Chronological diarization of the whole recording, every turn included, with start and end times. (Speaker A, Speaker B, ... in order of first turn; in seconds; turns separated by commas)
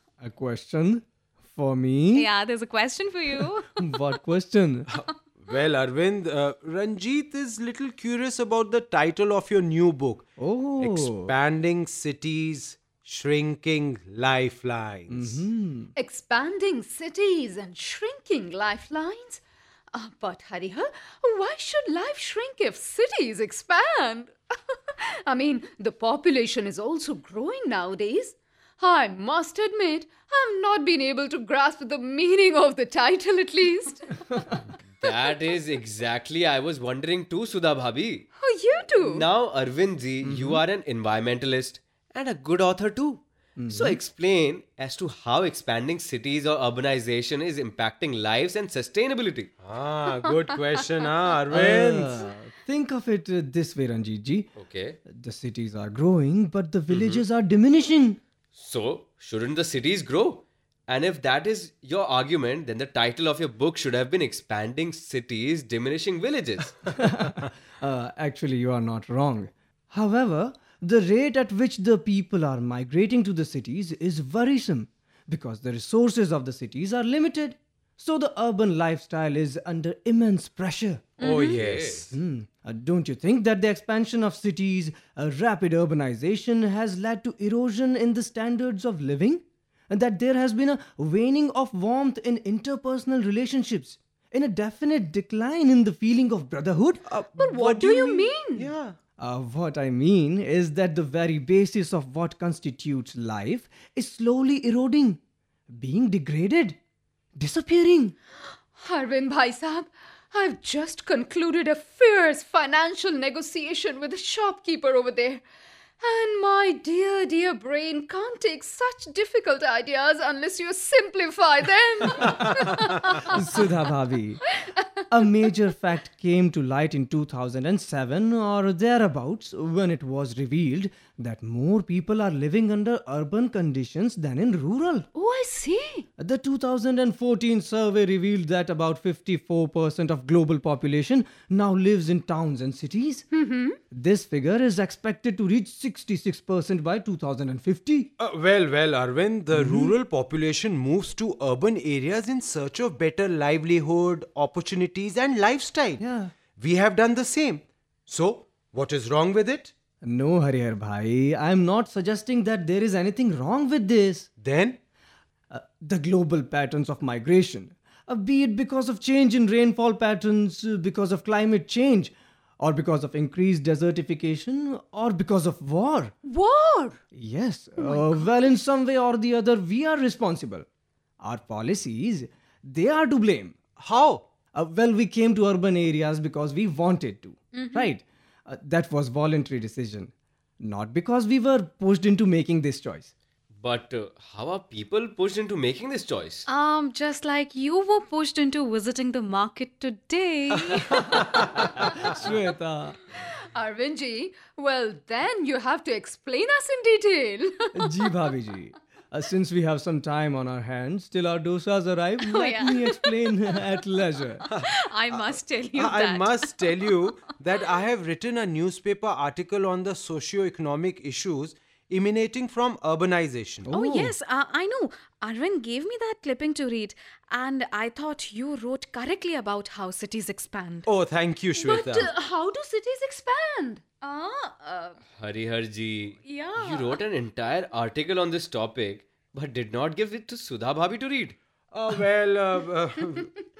Speaker A: 0.2-2.3, Speaker B: 2.1-3.9, Speaker A: 3.4-4.9, Speaker C: 4.9-10.2, Speaker A: 10.4-11.3, Speaker C: 10.8-15.4, Speaker A: 15.1-15.9, Speaker D: 15.9-19.4, Speaker D: 19.9-34.1, Speaker E: 34.9-38.3, Speaker D: 38.4-39.3, Speaker E: 39.0-49.5, Speaker A: 40.2-40.6, Speaker A: 43.6-44.0, Speaker C: 49.6-52.2, Speaker A: 51.5-54.5, Speaker E: 54.6-55.0, Speaker A: 55.1-58.2, Speaker E: 56.9-57.2, Speaker E: 58.5-67.0, Speaker A: 66.9-81.1, Speaker C: 81.2-82.2, Speaker B: 81.2-81.6, Speaker E: 81.3-82.1, Speaker A: 82.1-97.0, Speaker C: 97.1-99.0, Speaker D: 97.4-98.7, Speaker A: 99.2-106.8, Speaker A: 107.3-108.1, Speaker D: 108.8-115.4, Speaker D: 116.0-123.4, Speaker A: 123.2-124.4, Speaker A: 125.1-135.1, Speaker D: 135.1-136.1, Speaker A: 136.2-143.2, Speaker D: 143.3-143.8, Speaker A: 143.9-148.1, Speaker C: 148.2-156.0, Speaker A: 149.5-150.0, Speaker A: 156.0-156.3, Speaker C: 156.6-159.7, Speaker A: 160.0-164.3, Speaker C: 164.4-164.8, Speaker A: 165.5-176.1, Speaker D: 176.2-177.0, Speaker A: 177.1-180.7, Speaker A: 181.2-183.6, Speaker C: 183.8-184.2, Speaker A: 184.5-193.1, Speaker B: 187.5-187.9, Speaker E: 193.6-196.5, Speaker B: 196.5-201.3, Speaker A: 201.8-203.0, Speaker D: 203.5-207.8, Speaker A: 207.8-214.4, Speaker B: 212.2-213.6, Speaker B: 214.5-217.3, Speaker C: 214.5-223.7, Speaker A: 223.7-224.1, Speaker B: 223.7-230.9, Speaker C: 230.9-232.1, Speaker D: 231.6-233.9, Speaker B: 231.7-232.1, Speaker B: 234.0-235.0, Speaker E: 235.2-241.4, Speaker B: 236.2-237.0, Speaker C: 241.7-243.3